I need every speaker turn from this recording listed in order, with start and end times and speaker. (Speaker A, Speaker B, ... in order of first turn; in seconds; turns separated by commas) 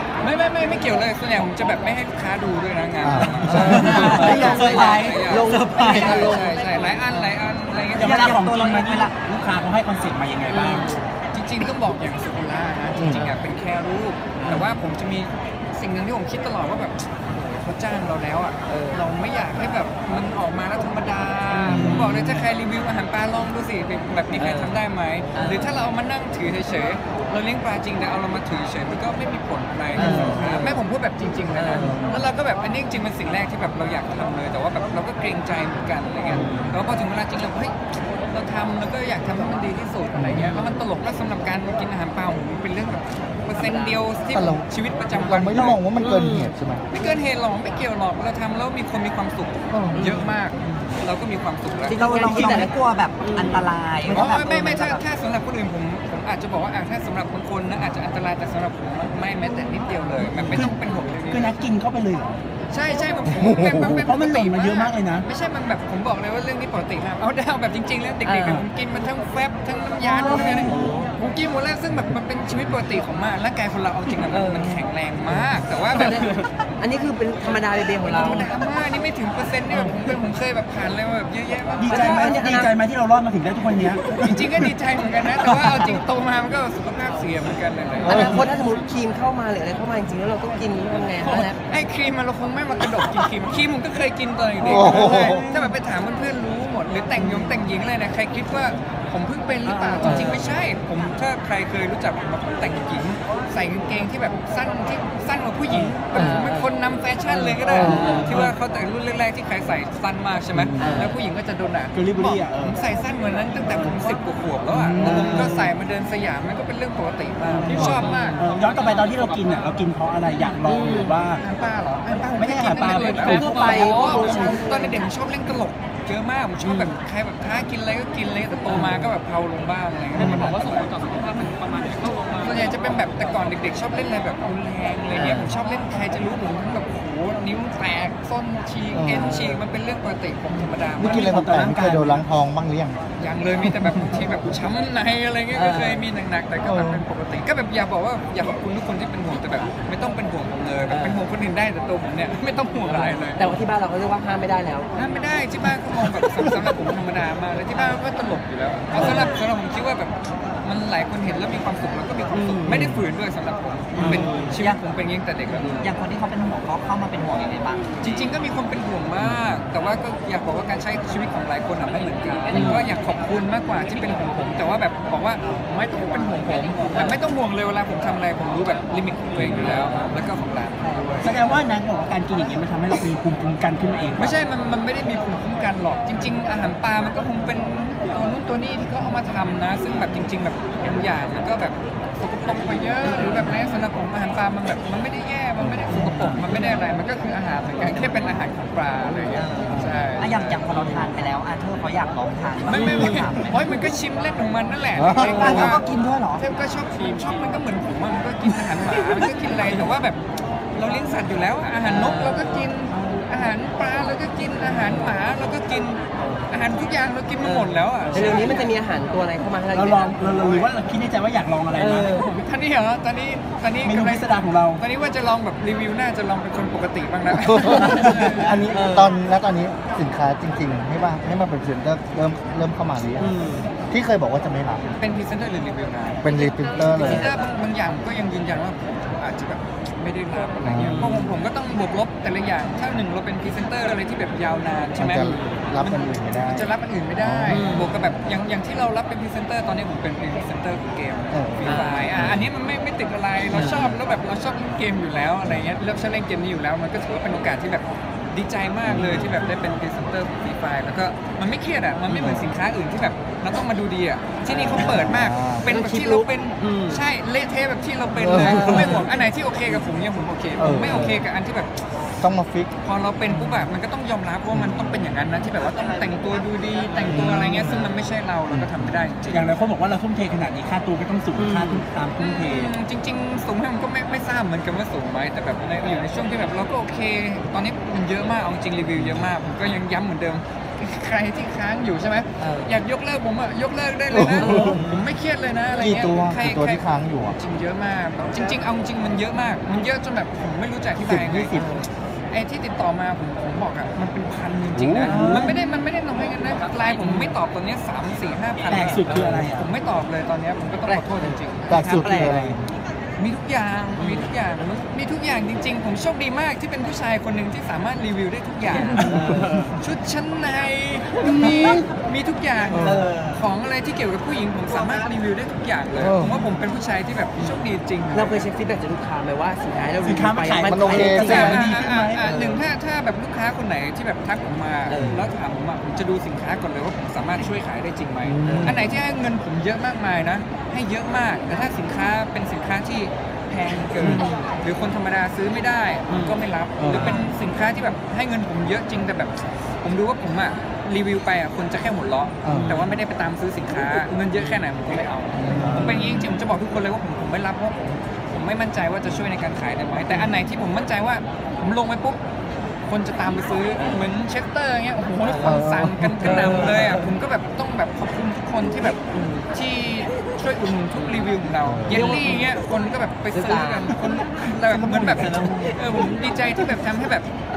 Speaker A: 0.2-8.3, Speaker B: 3.0-4.3, Speaker C: 3.5-6.7, Speaker D: 3.5-6.2, Speaker E: 8.0-10.9, Speaker D: 8.0-9.2, Speaker C: 10.5-11.1, Speaker A: 11.3-45.8, Speaker B: 13.0-13.3, Speaker C: 18.7-19.1, Speaker B: 21.7-22.4, Speaker E: 21.7-22.0, Speaker C: 24.4-24.8, Speaker C: 25.3-25.7, Speaker C: 30.0-30.8, Speaker B: 30.0-30.4, Speaker D: 30.1-30.4, Speaker C: 31.5-32.1, Speaker B: 31.8-32.2, Speaker B: 36.3-36.8, Speaker C: 36.3-36.8, Speaker B: 40.1-40.5, Speaker C: 43.6-44.0, Speaker B: 44.3-46.9, Speaker C: 46.0-46.5, Speaker A: 46.9-52.0, Speaker B: 49.7-50.0, Speaker C: 49.9-50.4, Speaker C: 51.9-53.7, Speaker D: 51.9-55.0, Speaker E: 52.3-52.7, Speaker A: 54.1-61.6, Speaker B: 60.3-60.6, Speaker E: 60.5-60.8, Speaker E: 61.3-62.4, Speaker A: 62.7-76.3, Speaker E: 63.7-65.3, Speaker C: 68.2-68.7, Speaker C: 70.0-71.1, Speaker C: 74.3-74.8, Speaker C: 75.9-78.5, Speaker A: 78.0-82.5, Speaker E: 81.8-84.7, Speaker C: 81.8-82.7, Speaker A: 84.1-88.5, Speaker C: 88.0-91.6, Speaker B: 88.0-88.4, Speaker A: 91.2-118.4, Speaker B: 94.6-95.5, Speaker E: 95.0-95.7, Speaker C: 97.2-97.6, Speaker E: 99.7-100.3, Speaker C: 100.0-100.3, Speaker B: 100.0-100.7, Speaker E: 105.7-106.0, Speaker C: 106.1-106.7, Speaker C: 107.3-108.4, Speaker B: 107.7-108.4, Speaker E: 108.3-108.5, Speaker B: 110.5-111.0, Speaker C: 110.8-111.2, Speaker E: 111.9-112.8, Speaker B: 114.7-115.6, Speaker C: 115.0-115.7, Speaker E: 117.5-121.4, Speaker C: 117.7-118.5, Speaker C: 120.6-121.2, Speaker A: 121.3-131.6, Speaker E: 122.4-124.6, Speaker C: 122.9-125.1, Speaker C: 126.6-127.0, Speaker C: 128.7-129.1, Speaker B: 130.2-130.6, Speaker A: 132.3-141.4, Speaker C: 135.1-135.5, Speaker B: 138.9-139.5, Speaker C: 139.1-139.6, Speaker B: 141.0-143.0, Speaker E: 141.1-142.2, Speaker A: 143.2-153.4, Speaker C: 145.5-146.0, Speaker B: 146.6-147.1, Speaker C: 150.9-151.3, Speaker C: 152.8-154.9, Speaker A: 154.9-165.8, Speaker C: 158.9-159.3, Speaker C: 162.3-162.9, Speaker B: 162.7-163.0, Speaker C: 163.9-164.6, Speaker D: 164.0-164.8, Speaker C: 165.5-165.9, Speaker D: 165.7-167.8, Speaker A: 168.0-181.5, Speaker B: 169.2-169.6, Speaker C: 172.5-172.9, Speaker B: 179.4-179.7, Speaker E: 181.2-184.4, Speaker A: 184.2-200.7, Speaker C: 193.2-193.5, Speaker B: 195.6-196.7, Speaker E: 195.9-196.4, Speaker D: 199.3-203.6, Speaker B: 199.7-200.1, Speaker A: 202.7-205.8, Speaker C: 202.7-203.3, Speaker B: 204.9-205.8, Speaker D: 205.2-206.5, Speaker A: 206.4-218.6, Speaker C: 211.8-212.7, Speaker C: 214.6-215.2, Speaker C: 217.4-220.3, Speaker D: 218.1-218.6, Speaker E: 219.7-222.2, Speaker C: 221.8-222.3, Speaker A: 222.1-228.6, Speaker E: 223.8-224.8, Speaker B: 227.3-233.3, Speaker C: 227.8-229.2, Speaker C: 233.2-233.7, Speaker B: 233.9-234.9, Speaker A: 235.0-271.8, Speaker B: 236.2-237.3, Speaker C: 237.0-237.4, Speaker B: 240.6-241.2, Speaker C: 240.8-241.4, Speaker B: 245.0-247.9, Speaker C: 245.2-245.6, Speaker C: 247.5-247.9, Speaker B: 251.3-252.5, Speaker C: 251.7-252.1, Speaker C: 253.5-253.9, Speaker B: 258.9-259.3, Speaker B: 262.1-262.5, Speaker C: 264.5-264.9, Speaker B: 264.8-265.7, Speaker C: 265.7-267.0, Speaker B: 268.2-269.0, Speaker C: 268.4-269.1, Speaker B: 270.6-271.3, Speaker B: 272.2-272.7, Speaker A: 272.8-279.5, Speaker B: 274.5-275.2, Speaker B: 277.1-277.9, Speaker B: 278.5-279.1, Speaker E: 279.3-282.7, Speaker C: 281.4-281.9, Speaker A: 282.2-301.6, Speaker B: 289.0-289.3, Speaker C: 292.4-292.8, Speaker B: 294.1-295.0, Speaker C: 294.4-294.8, Speaker B: 295.8-297.4, Speaker B: 301.0-301.6, Speaker C: 301.5-301.9, Speaker A: 302.3-312.4, Speaker E: 304.8-305.5, Speaker C: 305.1-305.6, Speaker E: 308.7-309.7, Speaker C: 309.1-309.4, Speaker C: 310.9-311.4, Speaker B: 311.7-312.7, Speaker C: 312.0-312.4, Speaker A: 313.2-319.2, Speaker C: 314.0-314.3, Speaker C: 318.7-319.8, Speaker B: 319.1-319.8, Speaker A: 319.8-328.4, Speaker B: 321.2-321.9, Speaker B: 322.7-323.1, Speaker C: 322.9-323.3, Speaker C: 324.7-325.0, Speaker B: 326.0-326.4, Speaker C: 327.4-332.6, Speaker E: 330.0-332.3, Speaker B: 330.6-331.7, Speaker A: 331.1-362.2, Speaker C: 334.9-335.2, Speaker B: 335.0-335.3, Speaker B: 338.2-339.0, Speaker C: 338.4-338.8, Speaker C: 344.0-344.5, Speaker C: 346.1-347.3, Speaker B: 346.8-347.3, Speaker B: 352.4-352.8, Speaker C: 352.5-353.0, Speaker B: 355.4-356.1, Speaker C: 355.5-356.2, Speaker C: 360.1-360.4, Speaker A: 362.9-369.0, Speaker C: 365.3-365.6, Speaker B: 365.4-366.8, Speaker C: 366.2-367.1, Speaker C: 369.1-369.5, Speaker A: 369.5-377.3, Speaker C: 371.0-371.3, Speaker B: 371.6-372.2, Speaker C: 371.9-372.6, Speaker C: 373.3-373.9, Speaker E: 374.1-376.6